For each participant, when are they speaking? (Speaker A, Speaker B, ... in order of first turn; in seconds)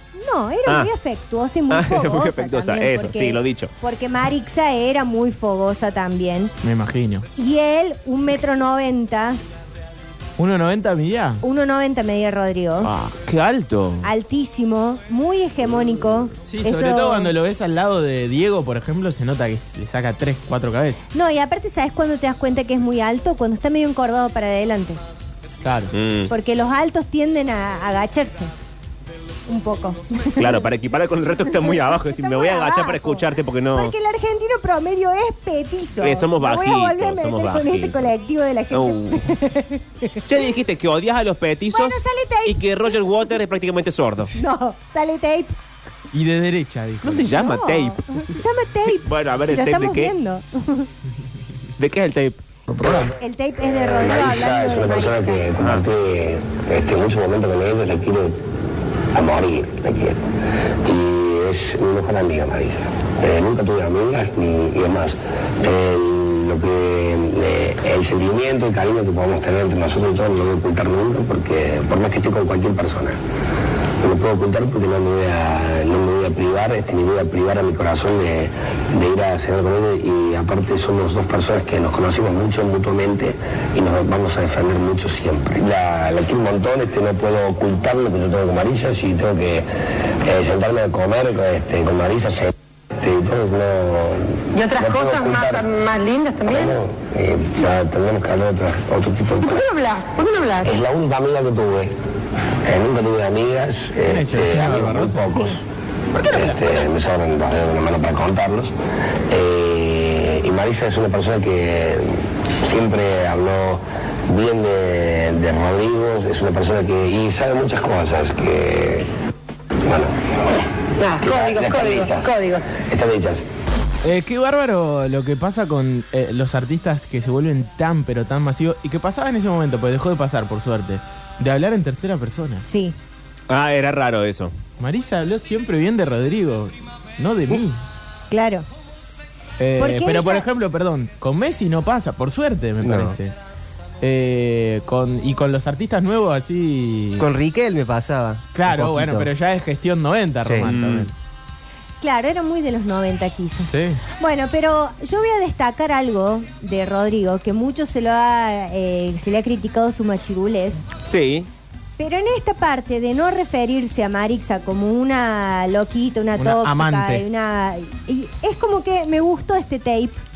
Speaker A: 0.1-6.5, 7.3-9.4, 11.4-12.9, 14.0-17.3, 21.1-25.0, 26.3-28.5, 29.5-30.6, 31.5-40.3, 41.7-43.3, 44.3-45.5, 47.3-50.9, 53.2-55.4, 105.3-105.6, 132.7-132.9, 138.3-138.7, 139.8-140.5, 152.0-160.8, 162.0-170.2
Speaker B: 0.7-0.9, 1.7-3.7, 12.8-14.1, 25.9-26.3, 30.4-33.9, 36.0-38.1, 38.7-39.3, 40.3-44.4, 47.0-48.3, 48.9-50.1, 51.8-52.4, 133.5-134.5, 150.6-151.1, 161.0-161.5
Speaker C: 6.6-7.2, 10.4-11.4, 16.5-21.0, 25.6-25.9, 46.1-47.3, 104.0-105.4, 124.0-132.6, 134.8-137.8, 139.6-143.3, 144.0-147.2, 148.5-151.1, 153.6-154.0, 166.4-167.2
Speaker D: 52.8-53.1, 53.6-58.4, 59.1-60.2, 60.8-73.2, 74.0-89.7, 90.2-95.7, 96.5-99.7, 100.6-101.9, 102.6-105.6, 106.2-108.7, 109.3-119.1, 119.8-120.6, 121.2-123.4
Speaker E: 94.5-96.8, 99.4-100.8, 121.0-122.7
Speaker F: 142.8-143.2, 147.2-149.3, 150.4-150.7